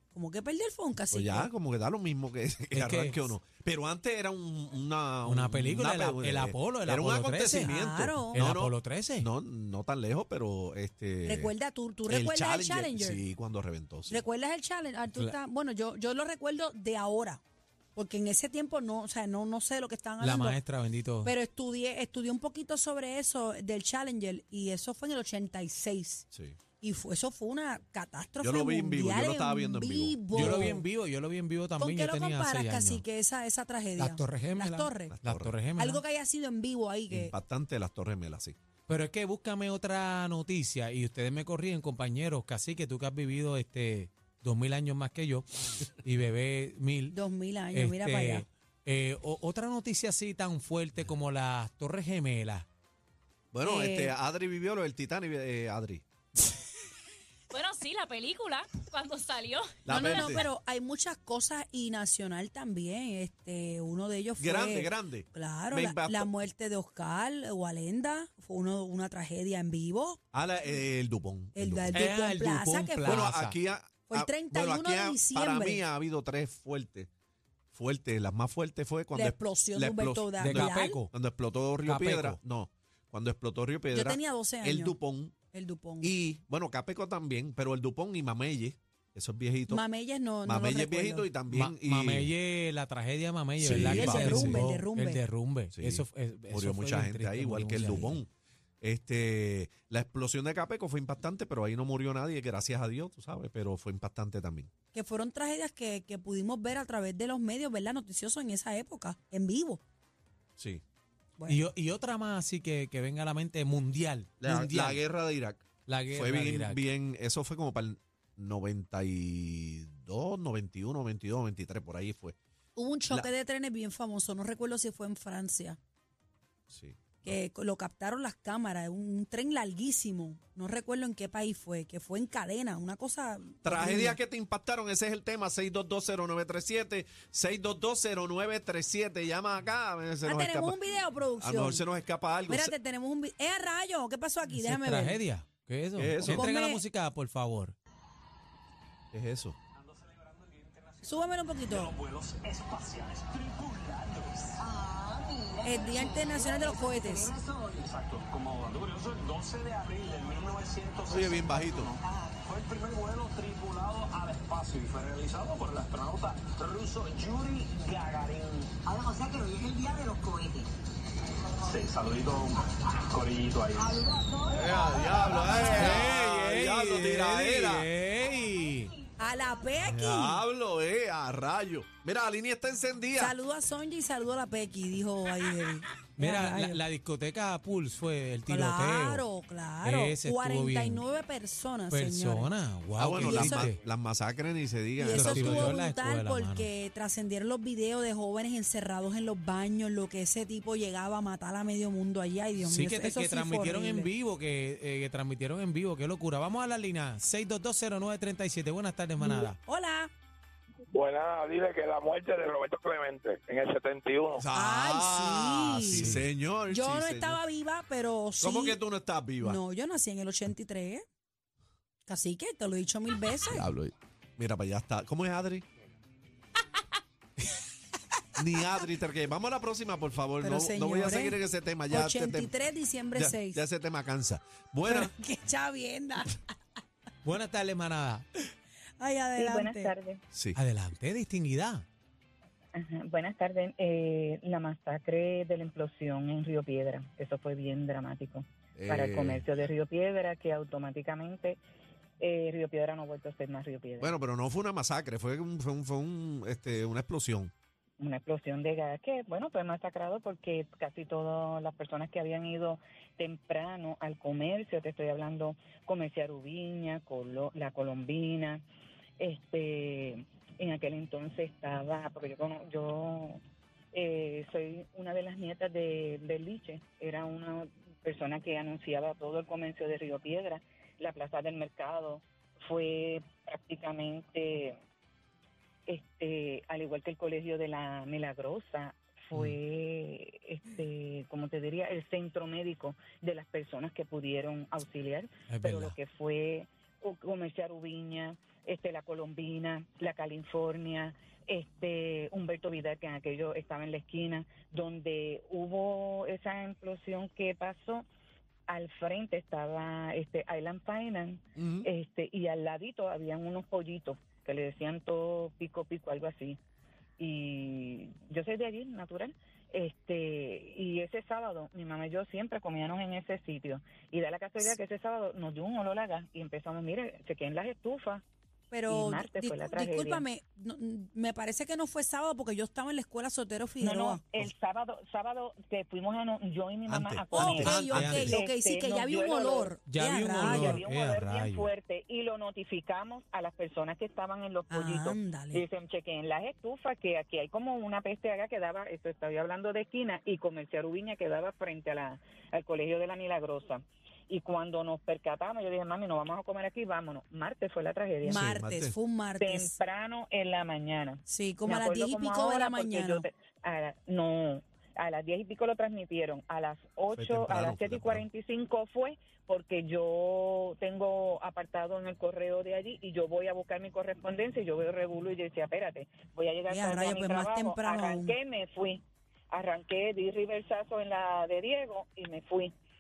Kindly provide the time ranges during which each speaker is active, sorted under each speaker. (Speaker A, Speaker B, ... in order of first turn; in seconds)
Speaker A: 0.1-1.5, 7.6-8.5, 11.2-13.2, 14.1-17.4, 17.9-20.6, 21.2-26.3, 26.8-30.8, 31.8-35.1, 35.8-37.3, 47.1-48.5, 53.6-54.1, 59.9-70.2, 71.5-73.3, 74.1-75.8, 79.1-81.0, 83.9-85.0, 85.5-86.1, 89.7-91.3, 93.7-95.2, 104.9-109.8, 111.4-111.7, 122.8-125.8, 127.2-134.2, 140.2-141.8, 142.5-145.2, 146.3-146.8, 151.0-151.9, 155.6-157.3, 179.2-180.4, 183.2-186.8, 188.5-192.5, 193.1-193.7, 195.0-204.1, 209.2-210.1, 214.5-216.2, 216.7-218.8, 219.4-221.1, 222.1-223.7, 230.4-231.4, 231.9-233.6, 234.8-236.4, 239.0-239.9, 328.7-334.2, 337.3-340.8, 344.7-345.6, 358.2-359.8, 361.3-363.3, 376.7-378.4
Speaker B: 1.1-11.5, 12.1-14.2, 26.3-26.6, 28.4-30.8, 35.1-35.6, 37.1-38.6, 53.5-56.0, 59.9-60.4, 64.4-66.3, 70.3-72.0, 73.0-77.1, 77.7-85.3, 86.0-89.8, 90.5-92.3, 93.6-94.6, 95.7-98.3, 98.8-104.7, 110.6-110.8, 114.4-122.4, 126.7-127.4, 133.6-140.8, 141.4-142.8, 146.0-146.5, 149.1-149.6, 161.1-161.9, 174.5-177.9, 179.8-183.4, 193.0-195.8, 214.4-217.4, 218.4-219.6, 223.5-225.7, 228.4-232.5, 233.2-235.1, 240.3-240.6, 248.8-249.5, 254.0-257.5, 311.6-311.9, 336.9-338.4, 358.3-358.9, 367.1-368.2
Speaker C: 2.8-3.3, 5.2-7.7, 8.3-9.3, 20.2-21.3, 30.3-33.0, 34.0-36.0, 38.9-47.2, 47.7-52.7, 71.9-73.6, 80.4-81.1, 81.8-82.4, 91.5-98.2, 111.5-115.0, 115.9-116.8, 144.5-147.8, 175.8-178.9, 186.2-189.2, 189.8-191.0, 191.9-193.8, 195.1-196.7, 202.6-209.6, 215.9-216.2, 237.2-238.2, 240.6-241.9, 295.5-296.0, 337.6-338.3, 339.9-341.7
Speaker D: 57.5-60.5
Speaker E: 149.8-154.6, 157.2-168.7, 171.6-174.1
Speaker F: 154.6-157.4, 161.1-162.1, 168.9-170.7, 173.8-175.8
Speaker G: 210.9-214.5
Speaker H: 239.4-240.2, 242.7-251.6, 252.2-254.1, 258.0-268.6, 269.2-273.4, 273.9-284.8, 285.9-308.0, 308.7-316.6, 317.2-328.2, 328.9-330.2, 333.8-339.7, 340.2-358.6, 359.4-382.7